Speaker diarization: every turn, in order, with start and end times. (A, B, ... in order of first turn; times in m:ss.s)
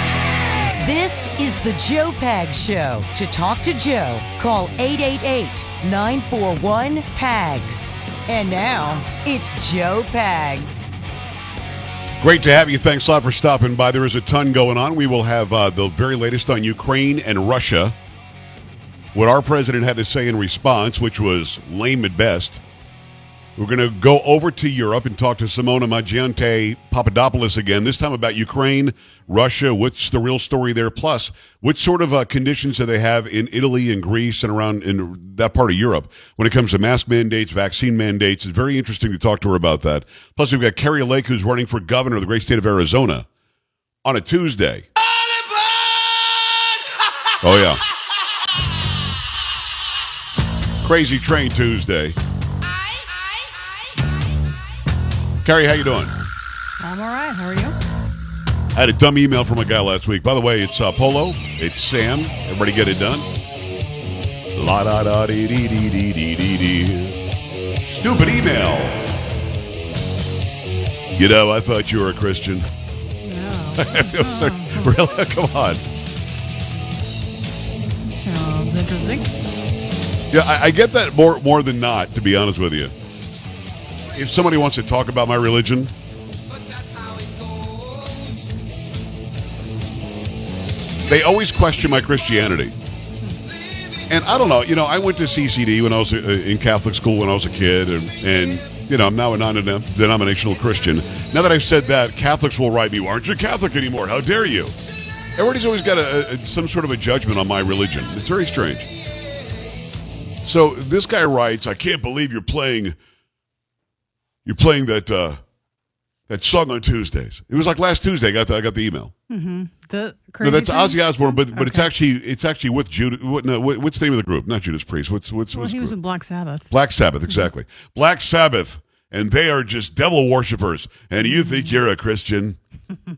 0:00.8-0:10.9 A
0:12.2-0:18.0 B
0:19.1-0:22.6 B
0:23.6-0:43.3 B
0:44.0-0:44.9 B
0:47.4-0:47.8 B
0:50.8-0:52.2 B
0:55.4-0:56.1 B
0:56.8-0:57.7 C
0:58.7-1:03.3 B
1:04.5-1:07.2 B
1:07.8-1:09.1 B
1:11.1-1:12.7 B
1:13.2-1:14.9 C
1:13.8-1:15.8 B
1:18.1-1:19.3 C
1:20.3-1:22.9 B
1:24.1-1:25.9 B
1:31.0-1:32.7 B
1:34.1-1:44.7 B
1:45.4-1:48.9 B
1:50.4-1:53.0 B
1:54.4-1:55.4 B
1:56.3-1:59.1 B
1:59.3-2:01.9 C
2:00.4-2:05.9 B
2:05.5-2:06.7 C
2:06.7-2:12.6 B
2:11.2-2:11.8 C